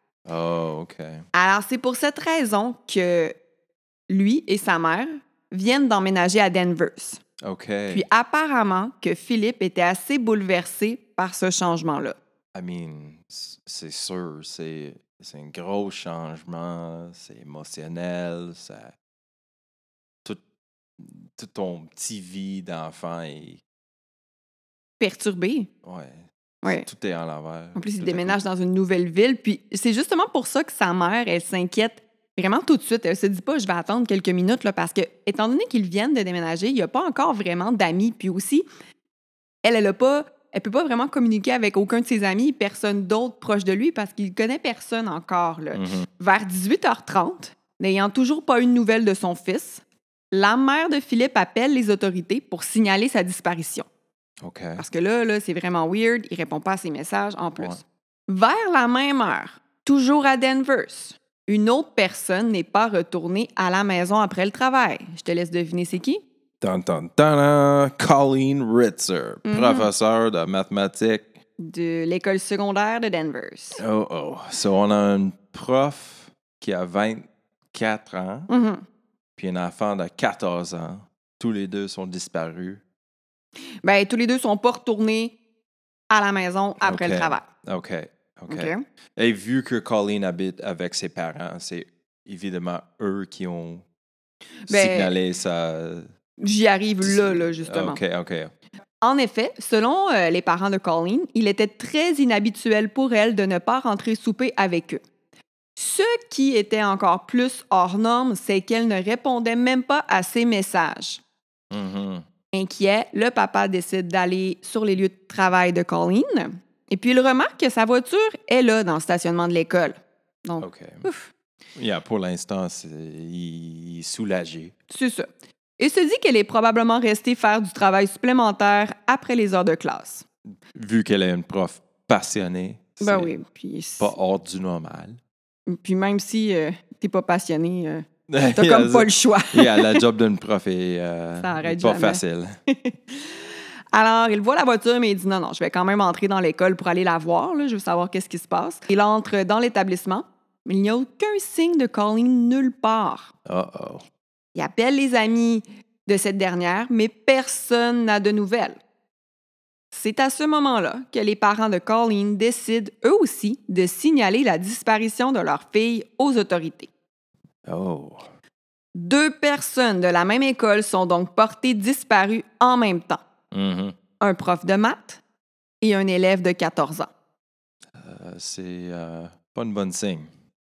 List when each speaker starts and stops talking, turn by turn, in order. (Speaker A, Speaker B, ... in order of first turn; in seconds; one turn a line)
Speaker A: 0.2-1.2
Speaker B: 1.3-3.3
Speaker B: 4.1-7.2
Speaker A: 7.4-8.0
Speaker B: 7.9-12.2
Speaker A: 12.5-18.9
Speaker A: 21.0-23.6
Speaker B: 25.0-25.7
Speaker A: 25.8-28.4
Speaker B: 27.8-38.6
Speaker B: 39.6-53.9
Speaker A: 45.7-46.1
Speaker A: 54.4-54.8
Speaker B: 54.8-66.2
Speaker A: 66.6-71.3
Speaker B: 69.5-69.9
Speaker B: 71.6-73.8
Speaker A: 73.8-78.5
Speaker B: 78.5-78.8
Speaker A: 79.4-82.8
Speaker B: 83.8-85.3
Speaker B: 86.1-87.5
Speaker A: 86.8-93.8
Speaker B: 88.5-88.8
Speaker B: 94.7-95.1
Speaker A: 94.7-96.1
Speaker B: 96.4-98.0
Speaker A: 97.0-98.5
Speaker B: 99.0-105.0
Speaker B: 105.8-111.2
Speaker A: 111.7-112.2
Speaker B: 112.5-121.3
Speaker A: 120.6-121.1
Speaker A: 121.7-124.7
Speaker B: 124.9-125.3
Speaker B: 125.8-130.2
Speaker A: 130.7-133.3
Speaker B: 133.0-134.1
Speaker A: 134.0-135.2
Speaker B: 135.7-140.0
Speaker A: 138.3-142.6
Speaker B: 141.4-143.3
Speaker B: 143.9-153.3
Speaker A: 153.4-154.0
Speaker B: 154.5-158.8
Speaker B: 159.9-166.9
Speaker A: 167.6-168.3
Speaker B: 168.9-173.2
Speaker A: 173.5-173.9
Speaker B: 174.2-175.2
Speaker B: 175.8-177.1
Speaker A: 177.9-180.3